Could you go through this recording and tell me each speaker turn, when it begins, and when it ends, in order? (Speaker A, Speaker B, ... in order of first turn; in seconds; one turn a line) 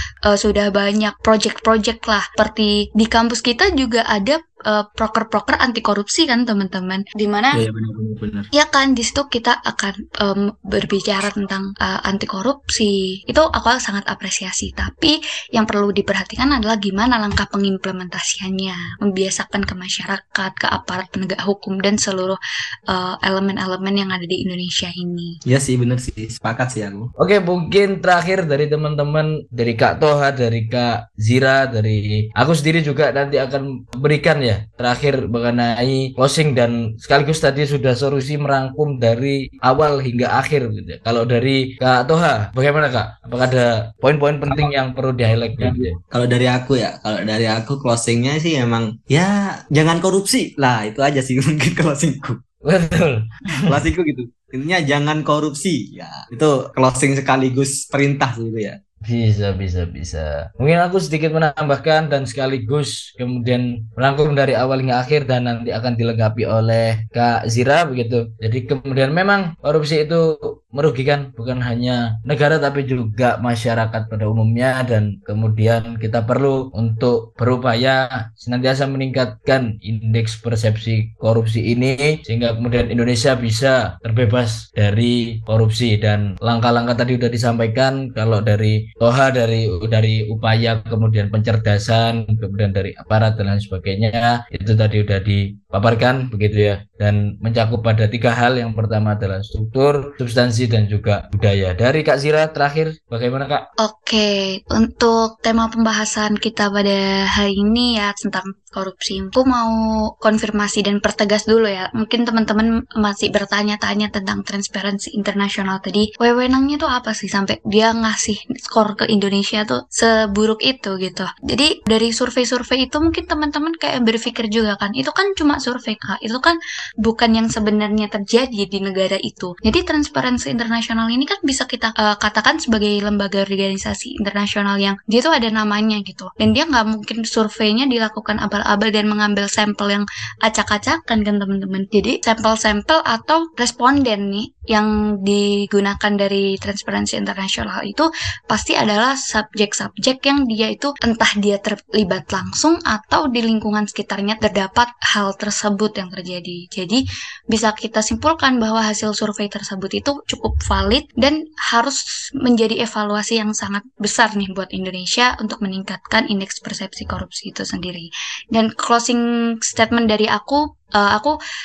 Speaker A: 0.3-7.6
Speaker B: 7.6-8.5
Speaker A: 8.5-25.4
Speaker B: 25.5-27.1
Speaker C: 27.2-46.0
Speaker B: 44.5-44.7
Speaker B: 45.6-52.4
Speaker C: 52.6-53.8
Speaker B: 53.7-58.8
Speaker C: 59.0-103.7
Speaker A: 103.8-171.4